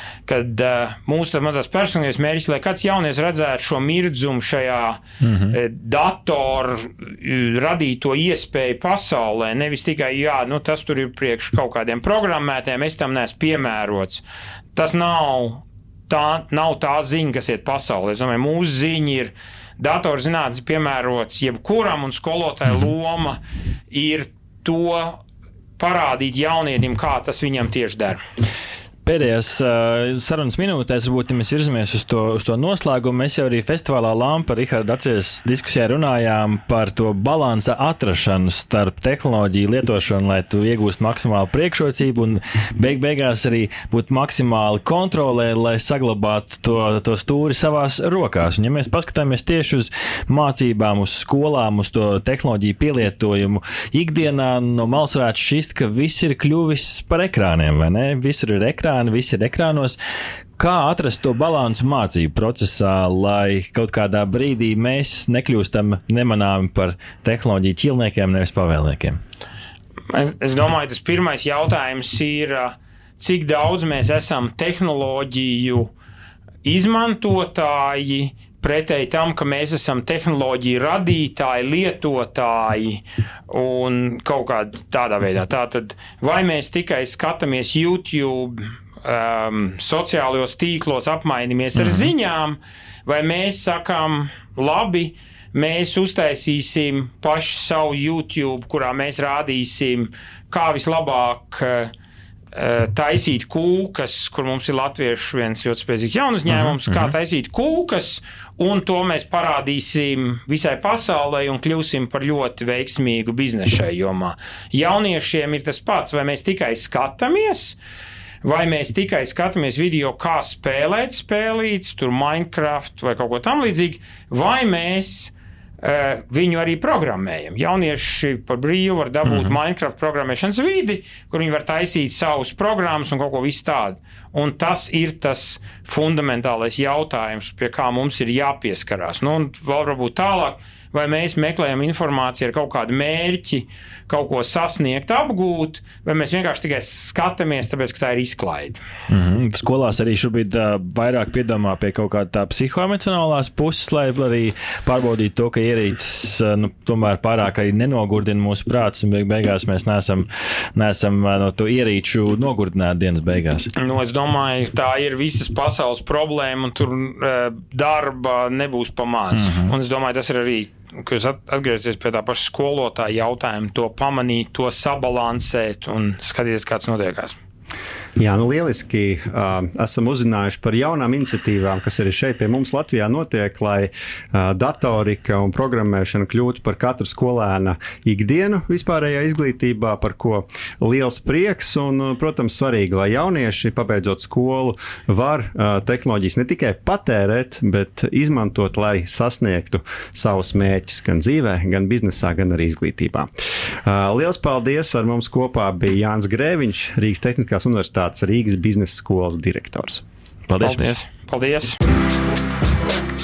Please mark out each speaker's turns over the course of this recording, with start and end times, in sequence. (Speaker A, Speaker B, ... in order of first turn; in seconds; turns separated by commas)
Speaker A: 0.2-25.2, Speaker B: 5.2-5.5, Speaker A: 25.8-28.2, Speaker B: 29.0-60.0, Speaker B: 60.6-69.2, Speaker A: 70.1-75.9, Speaker A: 76.6-101.9, Speaker B: 91.8-92.1, Speaker A: 102.5-117.8, Speaker B: 106.5-107.1, Speaker A: 118.4-148.8, Speaker B: 129.2-129.5, Speaker B: 149.1-163.7, Speaker A: 163.8-177.4, Speaker B: 169.3-169.7, Speaker C: 178.2-203.3, Speaker C: 203.8-210.0, Speaker B: 210.5-210.9, Speaker A: 210.6-211.8